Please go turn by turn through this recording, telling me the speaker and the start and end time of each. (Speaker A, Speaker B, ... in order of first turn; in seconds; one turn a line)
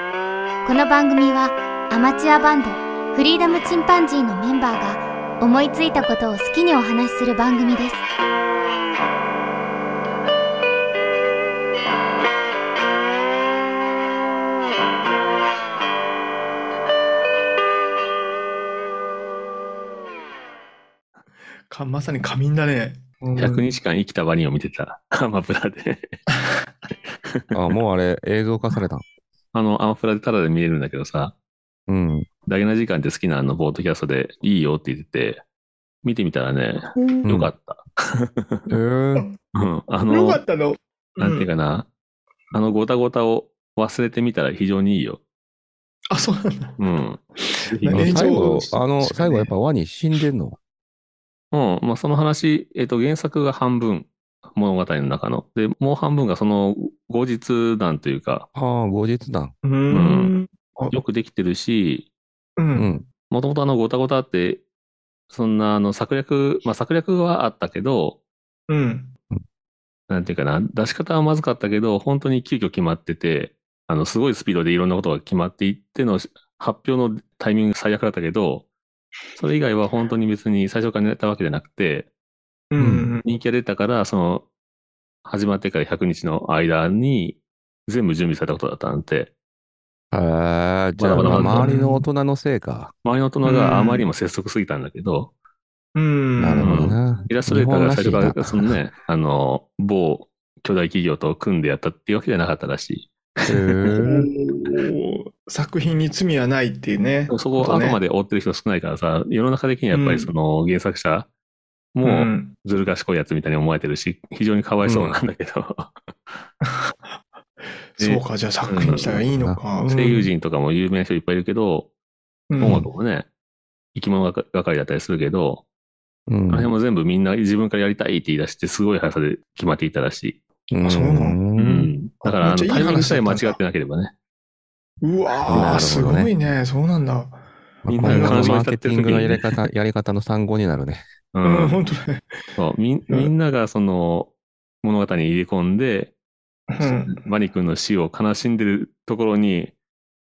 Speaker A: 0.6-8.0
Speaker B: 21.7-23.6
Speaker C: 23.4-26.2
Speaker D: 27.5-29.1
Speaker C: 29.5-31.3
Speaker D: 31.9-32.3
Speaker C: 32.5-35.4
Speaker C: 36.0-38.6
Speaker B: 36.9-37.3
Speaker D: 37.2-37.5
Speaker D: 38.7-39.3
Speaker C: 39.5-40.4
Speaker B: 40.1-41.5
Speaker C: 41.2-41.9
Speaker C: 42.5-45.2
Speaker B: 46.1-46.8
Speaker C: 46.8-48.4
Speaker B: 47.4-49.5
Speaker D: 47.9-50.6
Speaker C: 51.5-58.5
Speaker D: 58.5-59.5
Speaker B: 59.6-61.0
Speaker C: 59.9-60.4
Speaker C: 60.9-62.1
Speaker B: 62.6-62.9
Speaker D: 62.8-63.0
Speaker C: 63.3-64.6
Speaker C: 65.3-68.2
Speaker B: 68.7-69.1
Speaker C: 70.1-78.7
Speaker C: 79.4-82.1
Speaker B: 82.7-83.2
Speaker D: 82.8-83.1
Speaker C: 83.2-84.5
Speaker C: 85.2-89.3
Speaker D: 90.1-92.9
Speaker C: 91.0-91.8
Speaker B: 91.2-92.0
Speaker C: 93.0-95.3
Speaker B: 93.4-94.0
Speaker B: 96.0-96.9
Speaker D: 96.4-98.7
Speaker C: 96.6-103.1
Speaker D: 103.5-104.3
Speaker B: 104.0-108.0
Speaker C: 107.3-111.3
Speaker B: 109.9-110.3
Speaker C: 111.9-115.9
Speaker B: 112.0-112.5
Speaker D: 114.8-115.2
Speaker B: 116.6-117.1
Speaker B: 118.0-120.3
Speaker C: 118.0-119.2
Speaker C: 119.9-121.9
Speaker B: 122.5-122.9
Speaker C: 122.6-123.3
Speaker C: 124.0-125.6
Speaker D: 126.3-126.7
Speaker C: 126.5-130.4
Speaker D: 130.7-131.9
Speaker B: 130.8-131.4
Speaker C: 131.6-134.1
Speaker B: 132.2-133.6
Speaker B: 135.0-138.6
Speaker C: 135.5-135.9
Speaker D: 135.5-136.3
Speaker D: 137.8-141.0
Speaker C: 137.9-139.5
Speaker C: 141.3-141.8
Speaker B: 141.4-142.3
Speaker C: 142.6-144.3
Speaker C: 144.8-146.1
Speaker B: 146.7-147.2
Speaker C: 146.8-149.7